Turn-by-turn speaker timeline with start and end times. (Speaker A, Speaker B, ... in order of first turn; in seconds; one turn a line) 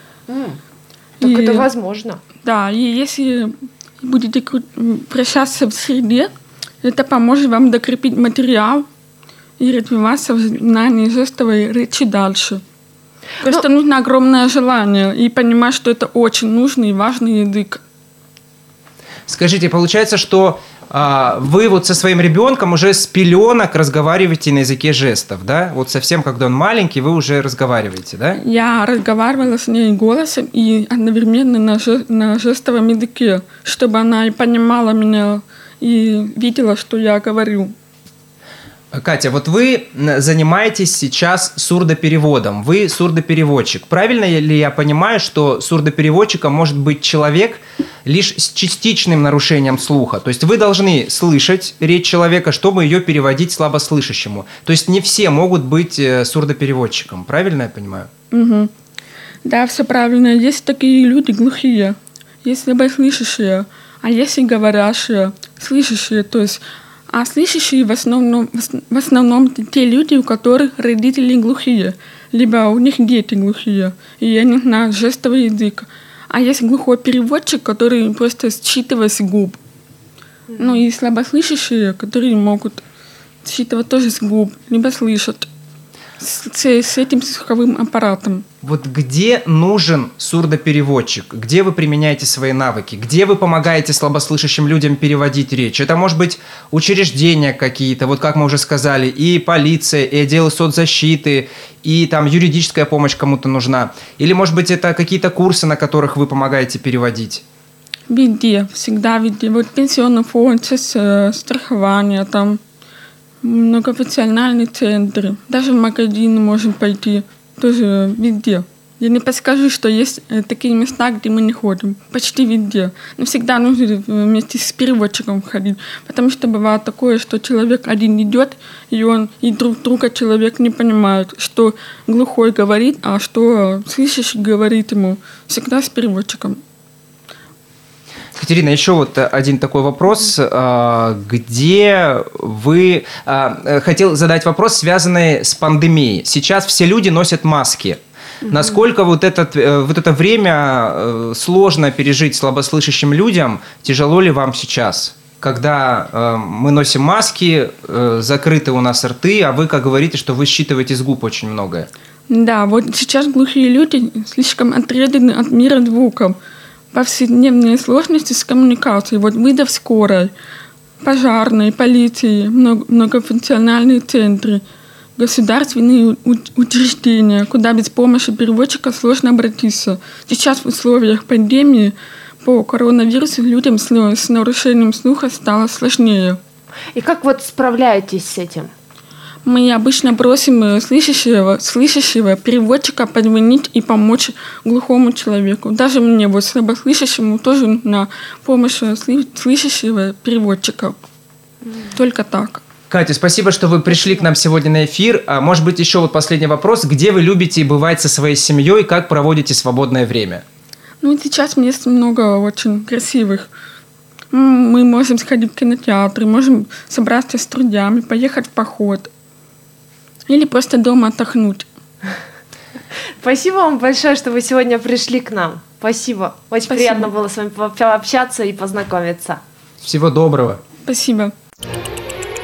Speaker A: 0.3-0.6
Speaker B: 1.2-1.7
Speaker A: 1.2-2.2
Speaker B: 2.4-6.3
Speaker B: 6.8-8.9
Speaker B: 9.6-12.6
Speaker B: 13.4-17.8
Speaker C: 19.3-28.4
Speaker B: 28.4-37.7
Speaker C: 38.9-58.1
Speaker B: 58.3-58.7
Speaker B: 59.4-79.6
Speaker B: 80.6-82.8
Speaker B: 83.4-85.5
Speaker B: 86.2-88.4
Speaker C: 88.6-107.4
Speaker B: 108.1-112.6
Speaker B: 113.4-136.6
Speaker C: 138.4-161.9
Speaker B: 162.3-166.4
Speaker B: 166.9-170.3
Speaker B: 171.0-174.6
Speaker B: 175.2-186.4
Speaker A: 186.9-188.7
Speaker B: 189.4-201.0
Speaker B: 201.8-202.6
Speaker C: 202.9-210.4
Speaker B: 211.0-213.5
Speaker B: 214.3-219.1
Speaker B: 220.3-221.7
Speaker A: 223.2-229.4
Speaker B: 226.7-227.1
Speaker C: 229.8-230.6
Speaker B: 230.8-231.3